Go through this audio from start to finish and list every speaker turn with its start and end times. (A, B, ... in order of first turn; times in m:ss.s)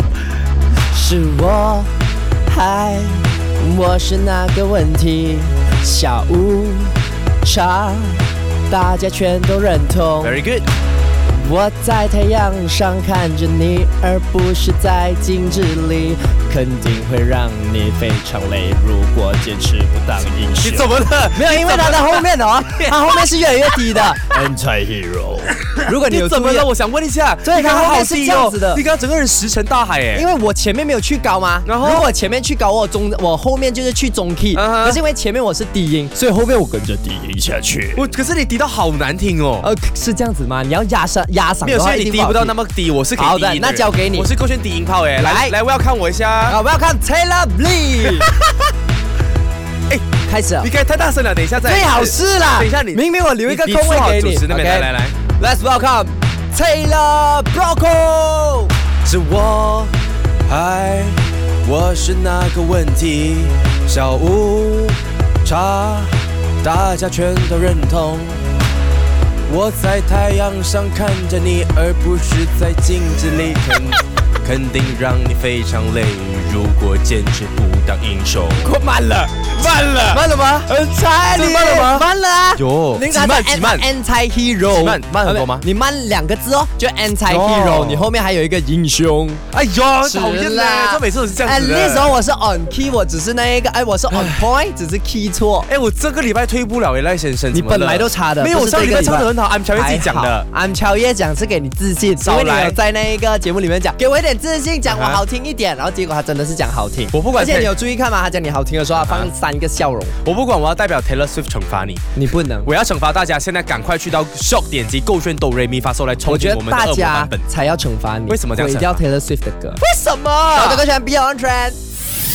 0:00.9-0:01.9 A
0:02.5-0:10.3 A
0:10.2-0:10.7 B
0:11.3-0:26.7 A
0:20.6-0:23.0 B
0:25.7-0:30.3 B
0:27.4-0:28.8 A
0:30.1-0:38.0 A
0:31.6-0:32.1 B
0:34.6-0:35.0 B
0:38.0-0:39.7 B
0:39.6-0:42.6 A
0:41.6-0:46.6 B
0:43.2-0:44.3 A
0:45.2-0:45.6 A
0:46.4-0:48.3 A
0:48.1-0:48.5 B
0:50.3-0:50.7 A
0:50.6-0:55.2 B
0:51.6-0:58.7 A
0:59.0-0:59.9 B
1:00.5-1:08.6 B
1:09.5-1:18.7 B
1:18.6-1:19.5 A
1:19.5-1:20.7 B
1:20.1-1:29.4 A
1:21.3-1:23.9 B
1:24.7-1:25.6 B
1:27.3-1:28.1 B
1:29.5-1:32.2 B
1:30.0-1:35.7 A
1:34.1-1:34.4 B
1:35.7-1:40.5 B
1:37.5-1:50.1 A
1:42.2-1:42.8 B
1:44.9-1:45.2 B
1:47.1-1:47.7 B
1:49.0-1:49.3 B
1:50.2-1:57.5 B
1:52.2-1:52.7 A
1:56.2-1:59.8 A
1:58.3-1:59.0 B
1:59.8-2:00.8 B
2:00.5-2:01.8 A